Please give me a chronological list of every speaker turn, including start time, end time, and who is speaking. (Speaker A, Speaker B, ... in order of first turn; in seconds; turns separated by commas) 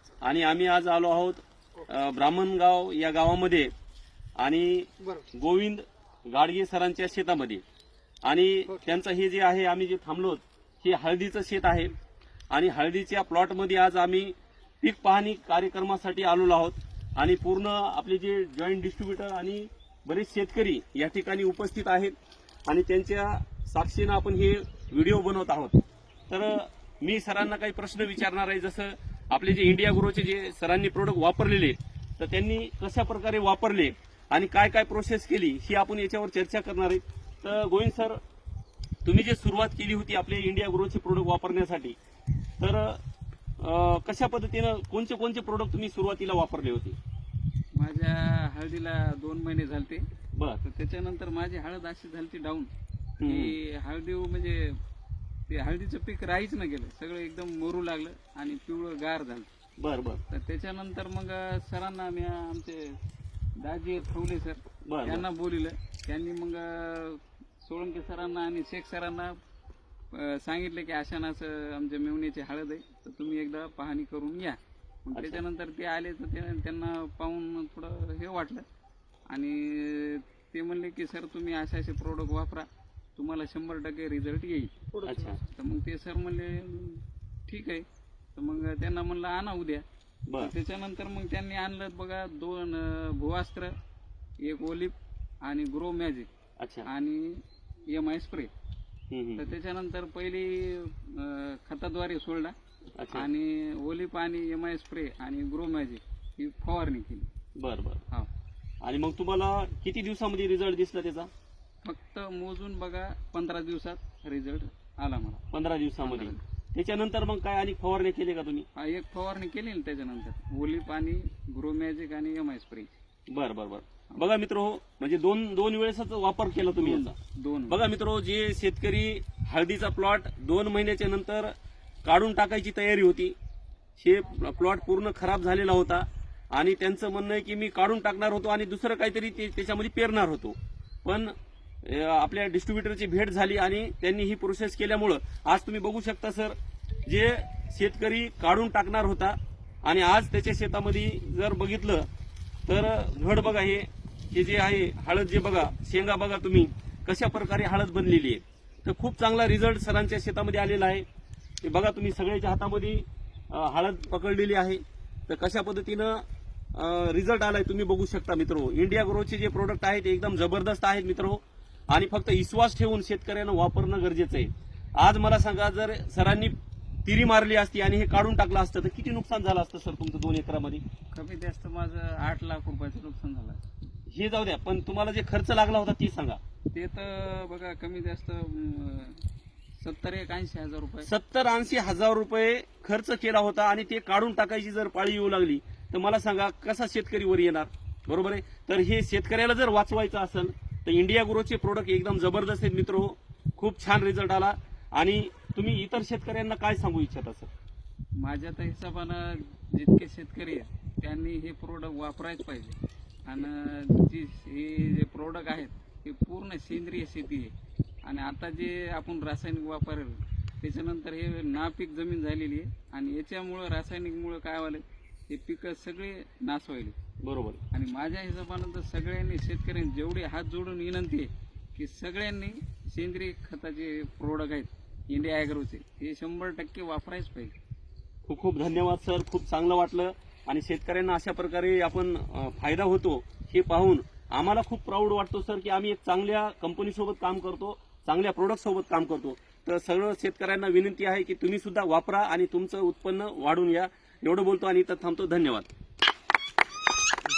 Speaker A: 0.2-3.7, Speaker A: 4.4-7.6, Speaker A: 8.2-11.9, Speaker A: 12.5-22.1, Speaker A: 22.7-25.8, Speaker A: 26.3-38.2, Speaker A: 39.0-42.0, Speaker A: 42.6-43.0, Speaker A: 43.6-47.0, Speaker B: 47.7-50.1, Speaker A: 50.4-50.6, Speaker B: 50.6-52.7, Speaker A: 53.2-53.5, Speaker B: 53.2-54.8, Speaker B: 55.5-59.5, Speaker A: 59.8-60.2, Speaker B: 60.3-63.0, Speaker B: 63.6-69.3, Speaker A: 64.8-65.2, Speaker B: 70.1-78.7, Speaker A: 75.1-75.4, Speaker B: 79.3-89.8, Speaker A: 85.0-85.4, Speaker B: 90.4-93.7, Speaker B: 94.4-96.3, Speaker A: 96.6-96.9, Speaker B: 96.8-98.5, Speaker A: 99.1-99.5, Speaker B: 99.4-102.5, Speaker A: 103.0-103.3, Speaker B: 103.1-107.3, Speaker A: 107.6-108.0, Speaker A: 108.8-111.3, Speaker B: 111.8-115.4, Speaker A: 115.5-118.7, Speaker B: 116.0-116.4, Speaker B: 118.7-123.0, Speaker A: 123.3-127.1, Speaker B: 126.8-127.8, Speaker A: 127.7-131.5, Speaker A: 132.0-133.3, Speaker A: 134.0-152.1, Speaker A: 152.7-161.0, Speaker A: 161.6-176.5, Speaker A: 177.1-180.8, Speaker B: 181.1-183.6, Speaker A: 184.1-186.4, Speaker B: 186.7-189.2, Speaker B: 189.8-191.1, Speaker A: 191.0-207.5, Speaker B: 208.2-226.9, Speaker A: 227.2-227.6, Speaker B: 227.7-237.5, Speaker A: 238.3-255.7